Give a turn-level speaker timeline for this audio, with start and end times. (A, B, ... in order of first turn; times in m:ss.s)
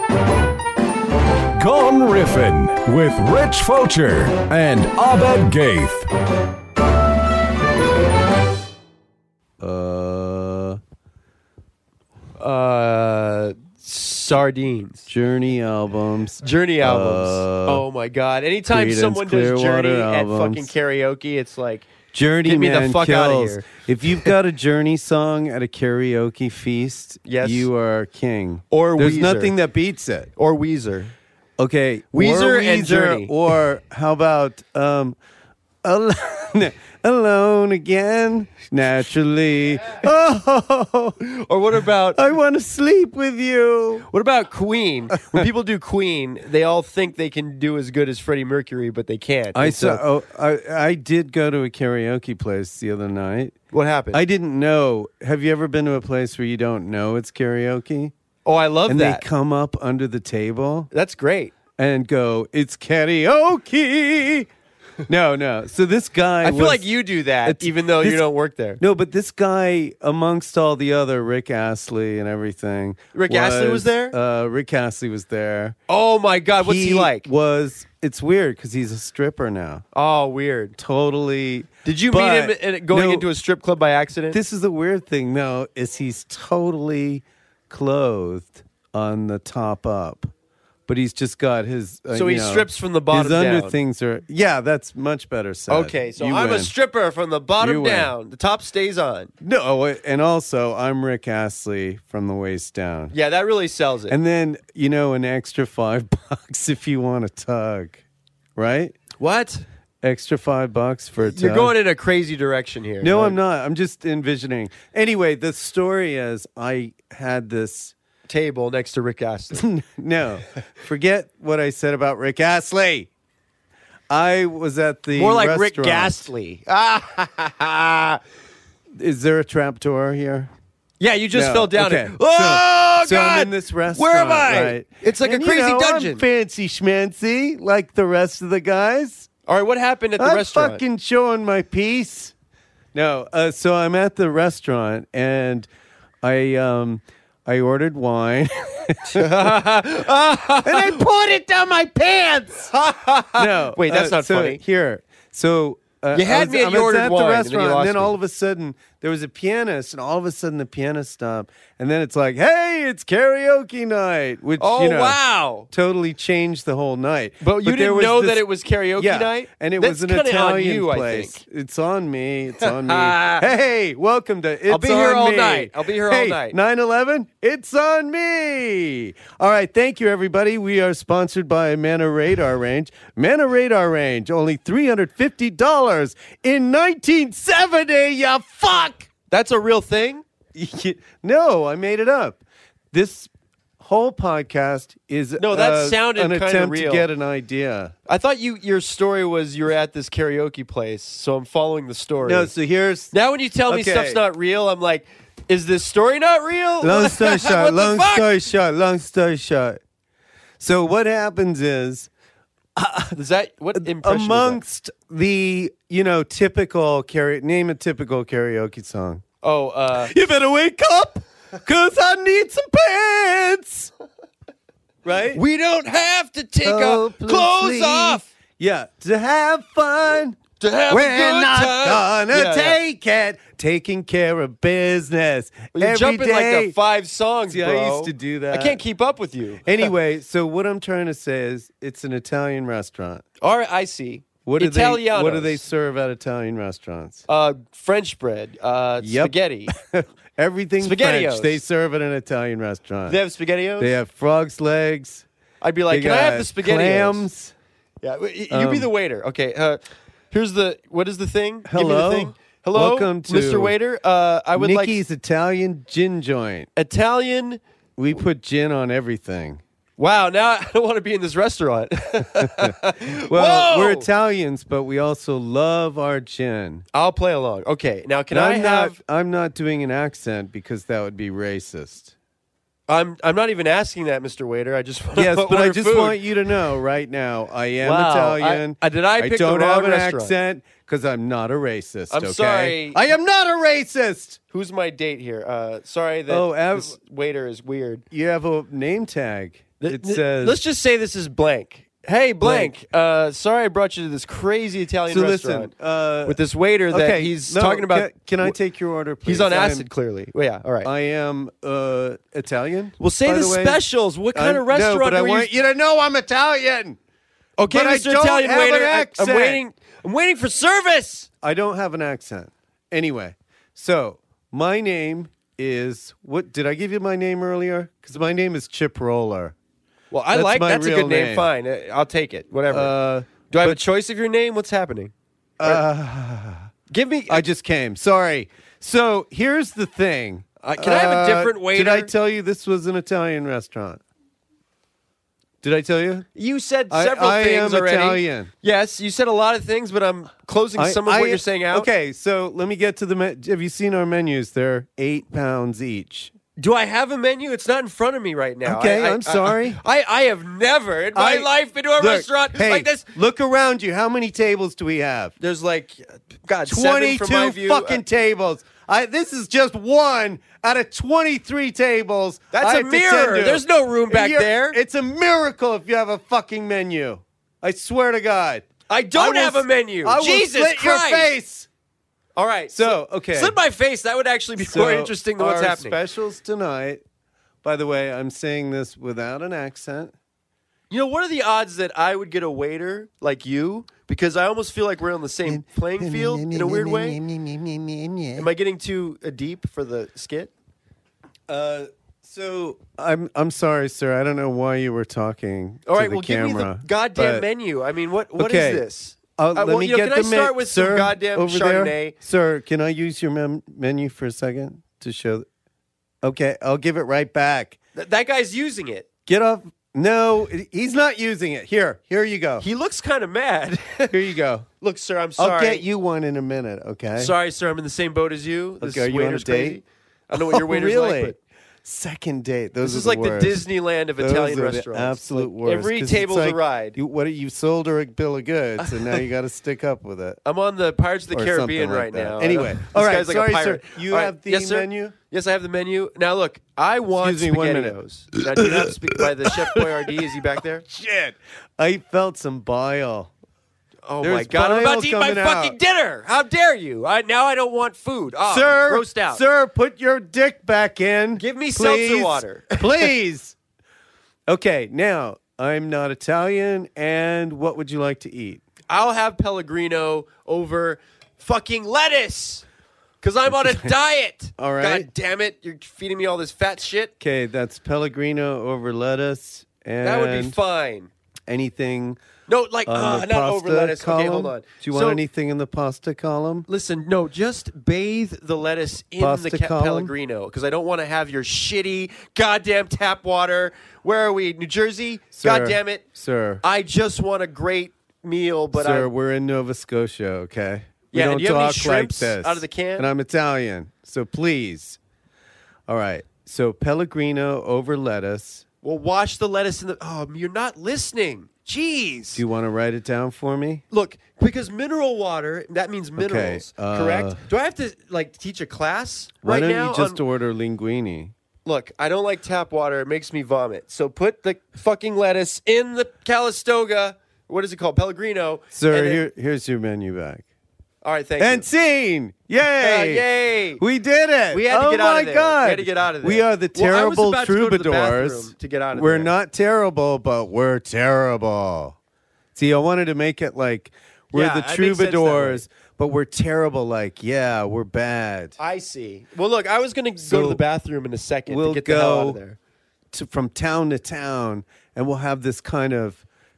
0:01.6-0:06.1 A
0:09.6-0:10.8 B
0:12.4-0:15.1 C
0:15.1-0:17.8 B
0:16.4-0:21.9 C
0:18.7-0:20.7 B
0:22.1-0:30.3 B
0:22.4-0:24.3 C
0:27.2-0:27.7 C
0:28.7-0:29.6 C
0:30.4-0:31.1 C
0:31.6-0:35.2 B
0:32.1-0:33.3 C
0:35.8-0:41.2 B
0:41.2-0:42.2 C
0:42.2-0:44.1 B
0:44.1-0:50.0 C
0:49.6-0:53.6 B
0:53.7-0:54.2 C
0:54.1-0:58.1 B
0:58.4-0:59.2 C
0:58.9-1:00.9 B
1:00.9-1:01.5 C
1:01.8-1:04.5 B
1:05.1-1:08.3 B
1:06.4-1:08.8 C
1:08.8-1:15.8 B
1:13.1-1:14.2 C
1:15.9-1:17.3 C
1:16.6-1:19.8 B
1:19.9-1:20.8 C
1:20.8-1:23.3 B
1:21.8-1:24.4 C
1:24.3-1:30.3 B
1:30.9-1:36.7 B
1:32.1-1:33.8 C
1:35.7-1:39.3 C
1:37.6-1:38.1 B
1:39.4-1:43.1 B
1:43.1-1:44.2 C
1:44.1-1:48.0 B
1:48.6-1:49.0 B
1:49.2-1:49.6 C
1:50.0-1:51.8 B
1:51.2-1:53.4 C
1:53.0-1:58.0 B
1:58.3-1:59.6 C
1:59.5-2:03.1 B
2:04.1-2:06.2 B
2:05.2-2:08.2 C
2:09.0-2:10.5 B
2:11.0-2:16.2 C
2:11.3-2:19.3 B
2:19.5-2:20.8 C
2:20.2-2:22.3 B
2:22.9-2:25.7 B
2:26.2-2:29.6 B
2:29.1-2:31.0 C
2:30.6-2:32.7 B
2:32.7-2:34.6 C
2:33.4-2:45.2 B
2:36.1-2:38.2 C
2:44.6-2:45.7 C
2:45.7-3:09.1 B
2:47.4-2:51.4 C
2:52.6-2:53.5 C
2:54.7-2:56.6 C
3:09.3-3:10.2 C
3:10.5-3:12.4 B
3:12.9-3:17.9 B
3:15.4-3:17.0 C
3:18.1-3:22.5 C
3:22.2-3:23.1 B
3:23.1-3:28.3 C
3:23.7-3:24.2 B
3:26.8-3:29.8 B
3:30.6-3:32.1 B
3:32.8-3:33.2 B
3:33.1-3:34.6 C
3:33.8-3:39.2 B
3:39.4-3:40.1 C
3:40.0-3:43.9 B
3:45.0-3:45.4 B
3:45.3-3:48.3 C
3:46.6-3:56.8 B
3:50.6-3:52.8 C
3:55.7-3:59.9 C
3:57.5-3:58.8 B
3:59.6-4:03.2 B
4:03.4-4:05.6 C
4:04.4-4:07.2 B
4:07.3-4:09.7 C
4:09.0-4:13.2 B
4:10.8-4:11.6 C
4:13.1-4:13.9 C
4:13.8-4:15.2 B
4:15.6-4:17.3 C
4:15.9-4:17.5 B
4:18.0-4:25.0 C
4:18.5-4:18.9 B
4:21.7-4:23.8 B
4:24.6-4:26.7 B
4:26.8-4:27.6 C
4:28.0-4:29.6 B
4:30.0-4:34.1 C
4:32.4-4:36.8 B
4:36.9-4:39.0 C
4:38.3-4:42.1 B
4:42.9-4:46.3 C
4:45.2-4:54.4 B
4:47.8-4:50.3 C
4:52.1-4:53.0 C
4:54.5-4:58.0 C
4:56.3-4:57.0 B
4:58.1-5:00.6 B
4:59.8-5:05.7 C
5:02.4-5:02.7 B
5:05.1-5:06.4 B
5:06.2-5:08.6 C
5:06.9-5:09.9 B
5:09.2-5:10.9 C
5:10.8-5:13.8 B
5:13.0-5:15.5 C
5:14.3-5:17.0 B
5:17.6-5:21.3 C
5:17.7-5:19.6 B
5:21.4-5:29.6 B
5:30.1-5:35.8 C
5:30.3-5:31.5 B
5:32.7-5:33.8 B
5:35.6-5:36.7 B
5:36.9-5:37.5 C
5:37.3-5:44.0 B
5:40.6-5:42.1 C
5:45.6-5:46.3 B
5:46.4-5:51.9 C
5:46.9-5:48.5 B
5:50.8-5:56.3 B
5:56.6-6:03.1 C
5:58.6-5:59.8 B
6:01.2-6:05.3 B
6:05.4-6:08.0 C
6:06.7-6:21.7 B
6:12.5-6:14.8 C
6:18.9-6:21.3 C
6:22.4-6:26.0 C
6:22.7-6:23.6 B
6:24.6-6:27.0 B
6:27.6-6:30.1 B
6:30.9-6:37.2 C
6:35.4-6:38.5 B
6:38.4-6:40.5 C
6:41.5-6:47.5 B
6:45.9-6:52.2 C
6:48.4-6:48.8 B
6:49.4-6:55.5 B
6:56.2-6:57.8 B
6:58.0-6:59.1 C
6:59.3-7:02.6 B
7:02.6-7:04.2 C
7:04.1-7:04.7 B
7:04.8-7:05.8 C
7:05.4-7:07.3 B
7:07.2-7:11.4 C
7:08.8-7:09.8 B
7:10.3-7:13.7 B
7:12.8-7:17.0 C
7:14.2-7:20.4 B
7:18.8-7:19.2 C
7:20.4-7:30.8 C
7:21.3-7:25.1 B
7:27.2-7:28.0 B
7:28.6-7:33.3 B
7:34.1-7:39.4 C
7:34.2-7:35.8 B
7:38.4-7:43.6 B
7:41.4-7:43.1 C
7:44.5-7:48.6 B
7:48.9-7:52.6 C
7:53.2-7:57.1 C
7:53.6-7:53.9 B
7:54.6-7:55.1 B
7:57.2-8:00.6 B
8:00.0-8:01.1 C
8:01.5-8:02.2 B
8:02.5-8:05.2 C
8:02.9-8:06.7 B
8:06.7-8:16.0 C
8:09.2-8:10.1 B
8:15.3-8:16.6 B
8:16.6-8:19.1 C
8:18.7-8:25.0 B
8:21.1-8:23.1 C
8:25.9-8:28.6 B
8:28.8-8:32.4 C
8:32.3-8:33.8 B
8:33.9-8:40.2 C
8:36.2-8:37.4 B
8:39.4-8:41.3 B
8:41.6-8:49.2 C
8:48.7-8:50.4 B
8:51.0-8:51.7 C
8:51.4-8:53.3 B
8:52.8-8:53.8 C
8:53.8-9:02.0 B
8:54.5-8:59.3 C
9:02.5-9:08.6 B
9:04.3-9:05.6 C
9:08.6-9:12.6 C
9:10.2-9:10.6 B
9:11.5-9:12.4 B
9:13.1-9:16.2 B